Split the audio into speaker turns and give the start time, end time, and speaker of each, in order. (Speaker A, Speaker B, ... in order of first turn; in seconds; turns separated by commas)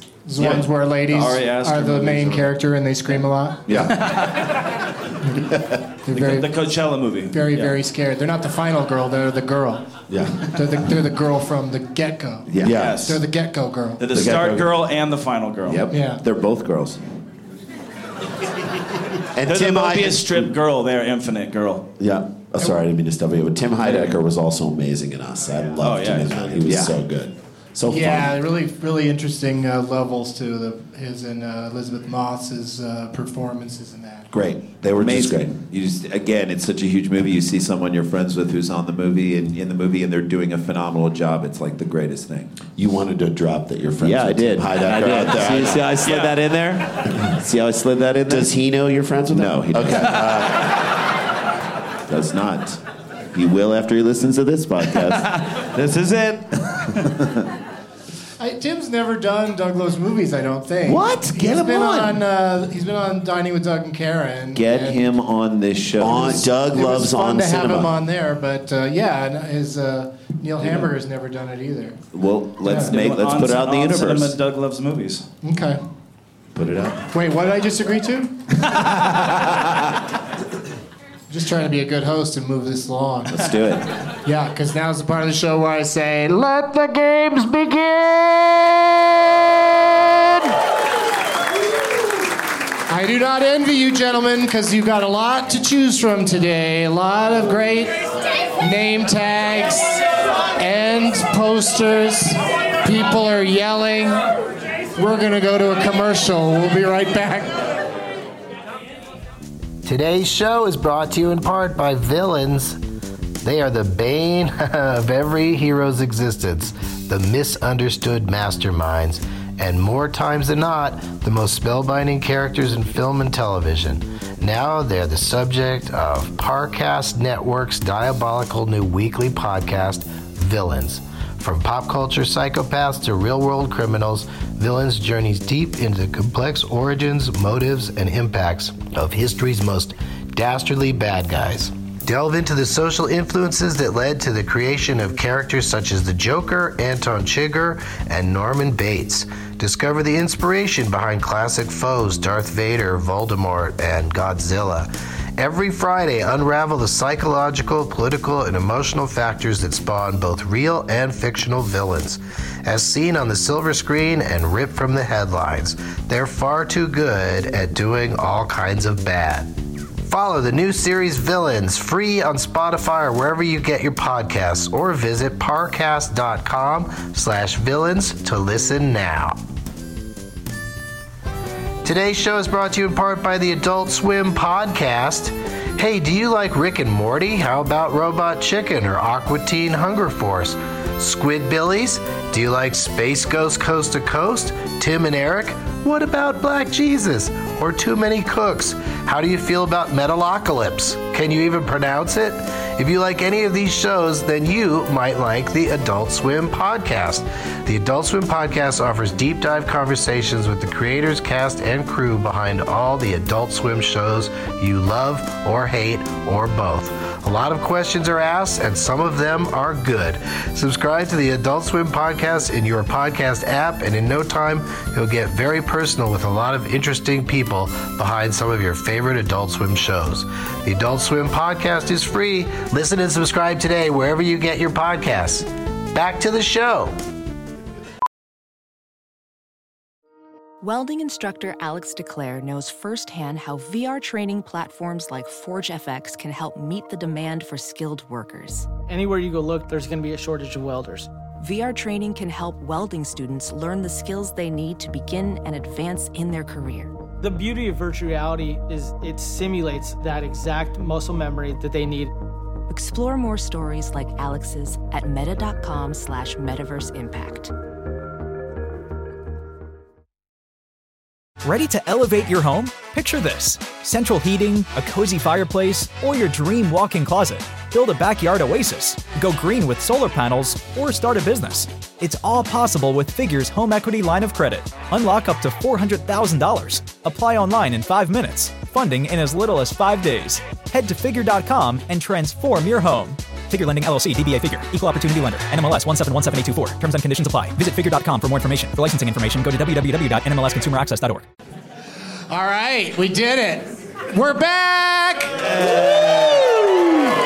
Speaker A: 0.3-3.6, Speaker B: 1.1-2.5, Speaker C: 3.7-4.0, Speaker B: 3.9-4.5, Speaker A: 6.0-6.5, Speaker B: 6.1-7.8, Speaker A: 7.3-9.9, Speaker C: 10.1-10.5, Speaker A: 10.5-12.5, Speaker D: 12.5-12.9, Speaker C: 12.6-13.1, Speaker B: 12.6-13.2, Speaker A: 13.0-14.0, Speaker B: 14.0-15.8, Speaker C: 14.1-14.7, Speaker D: 15.7-17.0, Speaker A: 15.9-16.2, Speaker C: 19.4-20.5, Speaker B: 19.5-21.8, Speaker C: 22.0-28.3, Speaker B: 25.8-26.6, Speaker D: 26.6-26.9, Speaker A: 27.9-34.3, Speaker C: 34.3-35.5, Speaker D: 34.9-42.5, Speaker C: 42.8-45.9, Speaker D: 44.0-48.5, Speaker B: 46.0-46.4, Speaker C: 48.3-50.7, Speaker D: 49.3-50.3, Speaker D: 52.1-52.8, Speaker D: 53.3-55.4, Speaker B: 55.0-57.1, Speaker A: 58.4-65.0, Speaker D: 60.8-62.2, Speaker D: 64.5-66.5, Speaker C: 66.0-67.9, Speaker A: 66.1-72.0, Speaker D: 72.1-74.3, Speaker A: 72.6-72.9, Speaker B: 72.8-75.2, Speaker A: 75.4-75.8, Speaker D: 76.6-77.0, Speaker A: 77.1-78.3, Speaker D: 79.0-79.7, Speaker A: 81.3-83.4, Speaker D: 83.3-83.8, Speaker A: 84.2-90.5, Speaker A: 92.9-98.0, Speaker A: 98.6-100.0, Speaker A: 100.6-104.2, Speaker A: 105.0-107.5, Speaker E: 109.8-112.8, Speaker E: 113.4-169.5, Speaker E: 170.1-179.4, Speaker E: 181.8-237.0, Speaker F: 240.6-248.7, Speaker G: 248.9-251.1, Speaker F: 251.4-256.9, Speaker G: 257.2-262.1, Speaker F: 262.7-267.5, Speaker H: 271.4-301.3, Speaker A: 302.3-306.1